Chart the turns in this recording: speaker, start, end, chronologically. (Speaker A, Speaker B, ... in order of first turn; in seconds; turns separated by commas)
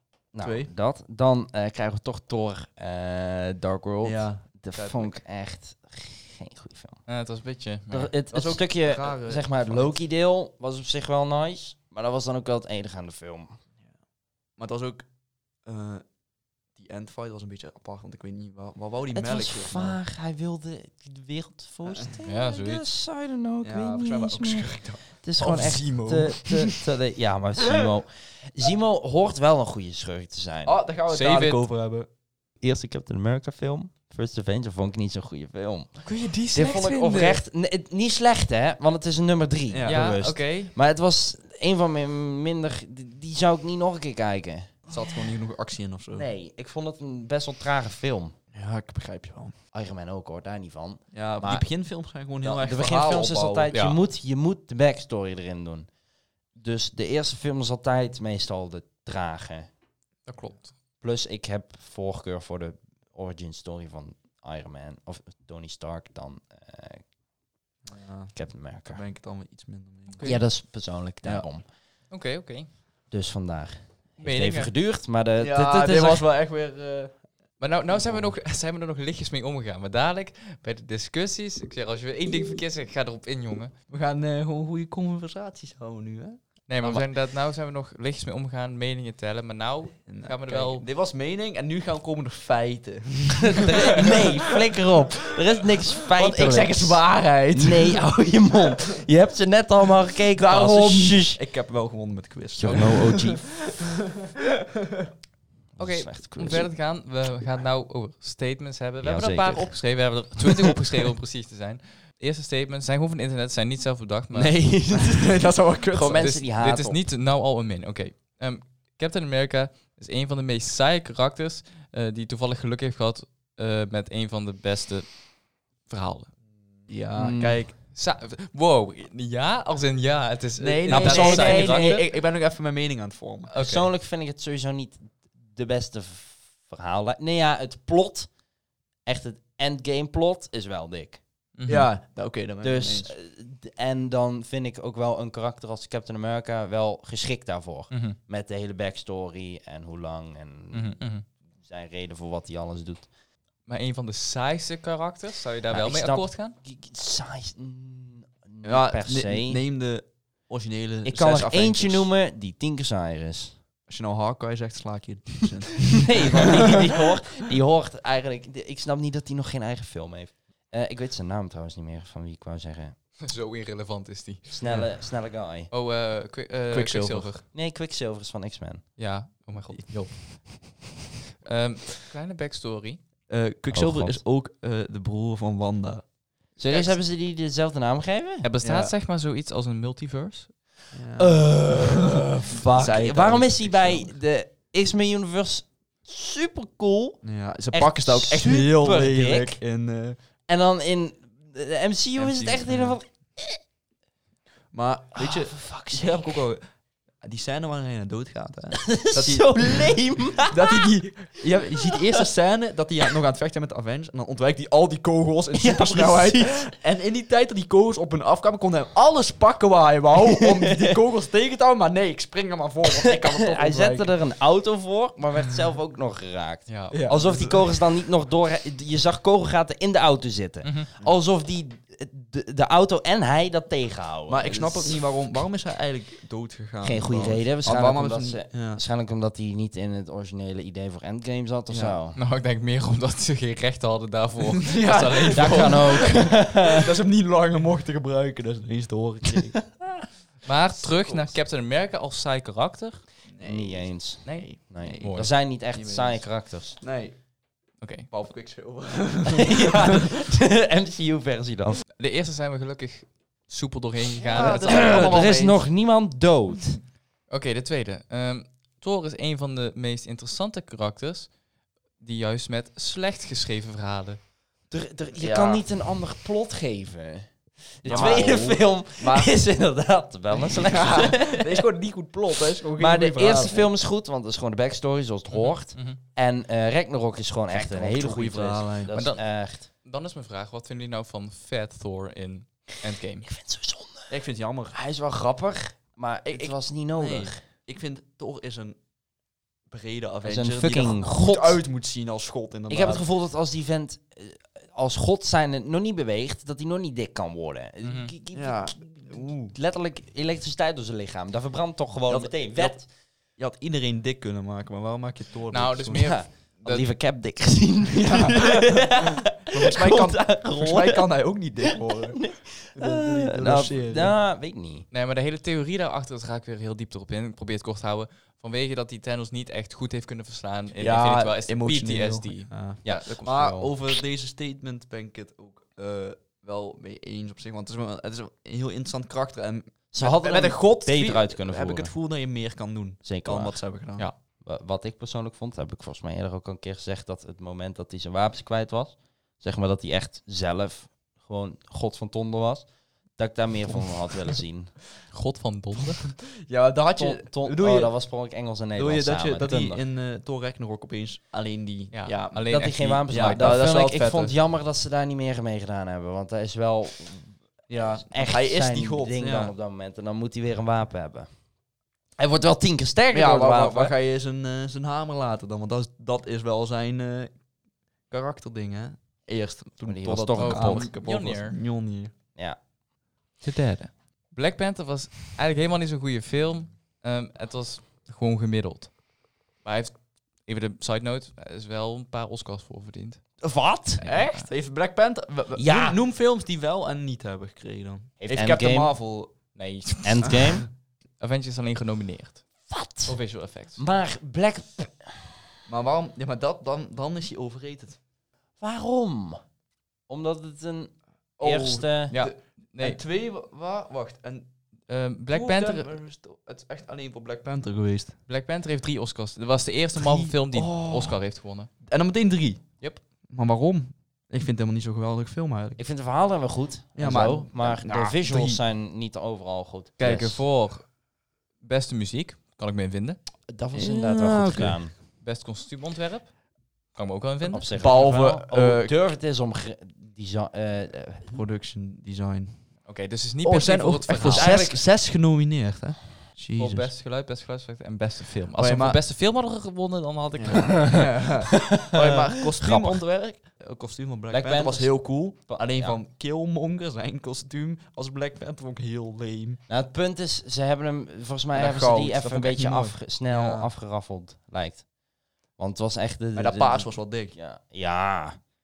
Speaker A: 0.3-7.0, Speaker B: 0.4-0.7, Speaker B: 4.0-5.2, Speaker C: 7.1-8.1, Speaker A: 7.9-13.6, Speaker B: 8.3-10.0, Speaker B: 14.6-15.0, Speaker B: 15.6-16.0, Speaker B: 16.7-20.0, Speaker A: 19.1-30.8, Speaker B: 21.9-22.1, Speaker C: 22.2-22.8, Speaker B: 23.6-26.8, Speaker B: 30.6-32.1, Speaker C: 31.1-31.6, Speaker A: 32.6-44.9, Speaker C: 36.0-37.4, Speaker B: 39.7-40.0, Speaker C: 39.9-40.7, Speaker B: 44.9-46.3, Speaker A: 46.1-48.3, Speaker B: 48.5-49.5, Speaker A: 49.7-51.7, Speaker B: 51.1-53.7, Speaker A: 52.4-55.9, Speaker C: 53.7-54.0, Speaker A: 56.5-59.7, Speaker C: 60.2-60.7, Speaker A: 61.0-67.0, Speaker B: 67.8-70.5, Speaker A: 68.3-69.0, Speaker C: 70.1-70.4, Speaker A: 70.2-71.7, Speaker C: 72.1-72.7, Speaker A: 73.1-76.2, Speaker C: 74.2-74.7, Speaker B: 75.4-78.3, Speaker C: 77.6-83.7, Speaker B: 83.9-86.4, Speaker C: 86.7-90.8, Speaker A: 86.8-87.1, Speaker B: 90.1-94.8, Speaker A: 93.5-101.4, Speaker B: 95.5-98.7, Speaker B: 100.3-103.9, Speaker A: 102.6-103.6, Speaker A: 105.7-106.7, Speaker C: 105.8-114.6, Speaker A: 109.0-110.5, Speaker A: 114.3-117.0, Speaker B: 114.9-116.3, Speaker C: 116.1-126.3, Speaker B: 126.9-127.7, Speaker A: 127.1-127.6, Speaker C: 127.9-132.1, Speaker B: 130.6-133.7, Speaker A: 130.9-132.0, Speaker C: 133.5-133.9, Speaker A: 133.6-138.3, Speaker A: 139.1-141.2, Speaker C: 141.5-141.9, Speaker B: 141.7-143.1, Speaker A: 142.6-151.0, Speaker C: 147.9-148.2, Speaker C: 150.7-151.2, Speaker A: 151.6-153.1, Speaker C: 153.7-156.6, Speaker A: 155.7-159.6, Speaker B: 158.6-162.1, Speaker A: 161.0-163.6, Speaker B: 163.9-166.9, Speaker A: 165.9-173.0, Speaker C: 173.2-175.0, Speaker A: 174.5-175.7, Speaker B: 174.6-174.9, Speaker C: 175.7-177.4, Speaker B: 176.7-177.4, Speaker A: 177.5-178.9, Speaker C: 179.0-180.7, Speaker B: 179.7-180.4, Speaker C: 181.4-183.0, Speaker B: 183.3-186.1, Speaker A: 183.7-184.2, Speaker A: 186.6-188.5, Speaker C: 186.7-187.0, Speaker C: 188.4-190.5, Speaker B: 188.6-188.9, Speaker B: 190.9-194.1, Speaker A: 191.2-199.6, Speaker B: 197.2-200.2, Speaker A: 200.5-203.6, Speaker B: 202.2-203.0, Speaker B: 204.7-224.1, Speaker A: 205.2-206.4, Speaker A: 208.8-210.9, Speaker A: 215.5-216.7, Speaker A: 223.0-235.0, Speaker C: 226.7-227.1, Speaker B: 226.9-227.7, Speaker B: 234.3-238.8, Speaker A: 236.8-242.2, Speaker B: 241.7-242.0, Speaker C: 242.1-246.1, Speaker B: 244.7-249.7, Speaker A: 245.3-246.9, Speaker C: 250.4-253.1, Speaker B: 250.8-251.3, Speaker B: 253.3-257.3, Speaker A: 253.4-256.8, Speaker C: 254.2-255.3, Speaker C: 257.8-258.1, Speaker B: 257.8-260.1, Speaker A: 259.3-261.8, Speaker C: 262.0-265.3, Speaker B: 264.2-265.7, Speaker A: 264.3-266.8, Speaker C: 267.3-271.3, Speaker C: 272.0-274.2, Speaker A: 274.7-281.6, Speaker B: 275.1-275.6, Speaker B: 277.8-279.4, Speaker C: 277.9-278.3, Speaker B: 280.3-283.7, Speaker A: 282.8-289.7, Speaker C: 285.3-286.0, Speaker B: 287.5-288.9, Speaker C: 288.9-293.3, Speaker A: 293.2-294.1, Speaker B: 294.1-294.8, Speaker A: 294.7-297.4, Speaker B: 296.3-298.8, Speaker B: 299.7-303.0, Speaker A: 300.2-301.6, Speaker A: 302.7-312.9, Speaker C: 307.8-308.1, Speaker B: 308.3-309.5, Speaker B: 312.1-316.3, Speaker C: 315.5-316.9, Speaker A: 315.9-321.0, Speaker B: 317.9-324.1, Speaker A: 321.8-324.9, Speaker C: 324.9-333.7, Speaker B: 330.8-344.1, Speaker A: 339.9-341.9, Speaker A: 343.0-343.7, Speaker A: 344.3-354.8, Speaker C: 355.1-356.0, Speaker B: 356.4-357.9, Speaker A: 356.9-359.8, Speaker B: 358.8-364.3, Speaker C: 361.9-363.6, Speaker A: 362.5-371.3, Speaker B: 367.7-369.5, Speaker A: 372.2-373.9, Speaker B: 373.1-377.4, Speaker B: 378.1-382.1, Speaker A: 379.8-380.9, Speaker C: 380.4-381.6, Speaker C: 383.4-389.0, Speaker C: 389.6-393.2, Speaker A: 393.4-394.1, Speaker C: 394.0-394.5, Speaker B: 394.0-399.3, Speaker A: 395.6-396.0, Speaker A: 398.2-398.9, Speaker C: 399.5-400.4, Speaker A: 400.0-400.7, Speaker B: 400.2-400.6, Speaker C: 401.2-403.8, Speaker A: 402.7-403.2, Speaker A: 403.8-405.4, Speaker B: 405.7-408.0, Speaker A: 408.6-409.4, Speaker A: 410.1-412.1, Speaker B: 411.4-414.5, Speaker C: 412.1-413.0, Speaker C: 414.9-415.9, Speaker B: 415.3-418.2, Speaker C: 418.3-421.7, Speaker B: 420.0-421.2, Speaker B: 421.8-425.8, Speaker A: 425.8-430.4, Speaker B: 426.9-428.6, Speaker C: 430.0-430.9, Speaker C: 431.6-433.2, Speaker A: 433.5-434.9, Speaker B: 433.7-434.8, Speaker C: 435.2-437.7, Speaker A: 437.5-441.4, Speaker B: 437.8-439.0, Speaker B: 441.3-442.7, Speaker C: 442.8-444.6, Speaker B: 443.4-446.9, Speaker A: 444.2-444.8, Speaker C: 446.6-450.9, Speaker B: 448.6-449.0, Speaker B: 450.4-459.6, Speaker A: 451.8-453.0, Speaker A: 454.3-456.0, Speaker A: 459.7-464.9, Speaker B: 461.5-463.7, Speaker A: 465.6-468.4, Speaker B: 466.4-467.4